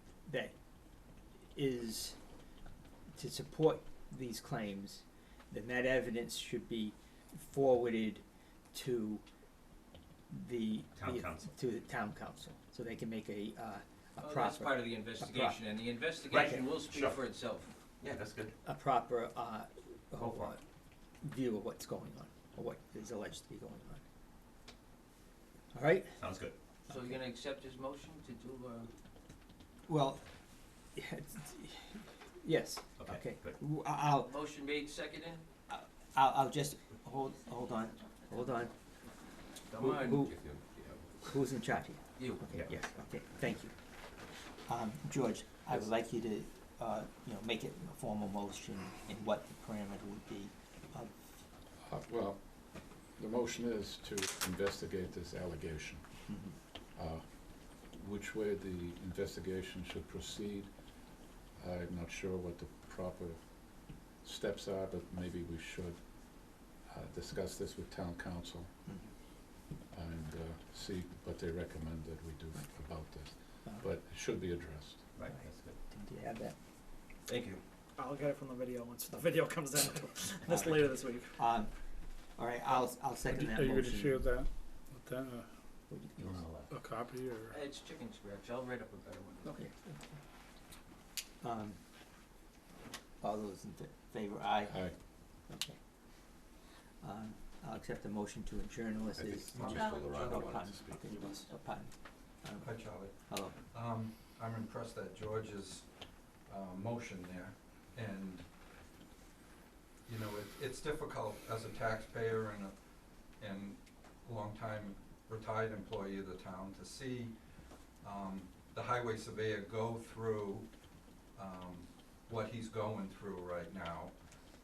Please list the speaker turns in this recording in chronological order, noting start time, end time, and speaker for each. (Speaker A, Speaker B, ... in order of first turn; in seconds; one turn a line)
Speaker A: 0.2-0.5
Speaker A: 1.5-2.2
Speaker A: 3.2-9.2
Speaker A: 10.3-15.6
Speaker B: 10.9-11.5
Speaker C: 14.2-17.7
Speaker B: 16.3-17.2
Speaker B: 18.0-18.5
Speaker A: 18.6-20.6
Speaker B: 20.2-20.5
Speaker A: 21.2-24.0
Speaker A: 25.7-26.1
Speaker B: 26.1-26.5
Speaker C: 26.9-28.9
Speaker A: 29.9-30.2
Speaker A: 30.9-34.4
Speaker B: 33.0-33.6
Speaker C: 34.2-35.4
Speaker A: 35.7-38.7
Speaker C: 39.7-40.2
Speaker A: 39.8-40.3
Speaker B: 39.8-41.3
Speaker A: 41.2-43.7
Speaker C: 42.2-42.4
Speaker B: 42.4-42.8
Speaker A: 44.7-51.1
Speaker D: 51.8-52.5
Speaker D: 53.1-56.0
Speaker D: 56.9-57.2
Speaker D: 57.8-60.7
Speaker D: 61.6-63.4
Speaker D: 64.2-66.0
Speaker D: 66.7-68.7
Speaker D: 69.9-75.0
Speaker B: 75.2-75.8
Speaker A: 75.9-76.5
Speaker B: 77.3-77.6
Speaker E: 78.0-81.3
Speaker A: 80.5-81.7
Speaker A: 82.4-84.2
Speaker F: 83.3-85.5
Speaker A: 85.9-86.4
Speaker B: 86.2-86.7
Speaker F: 86.7-87.5
Speaker C: 87.5-89.6
Speaker A: 89.4-90.0
Speaker A: 91.4-91.8
Speaker A: 93.2-94.9
Speaker D: 94.7-94.9
Speaker A: 95.5-95.8
Speaker A: 97.0-102.7
Speaker B: 99.1-101.2
Speaker G: 99.5-100.6
Speaker G: 102.6-105.8
Speaker A: 103.3-103.6
Speaker G: 106.5-108.4
Speaker G: 110.1-112.7
Speaker G: 113.4-117.3
Speaker G: 118.0-120.7
Speaker G: 121.3-124.1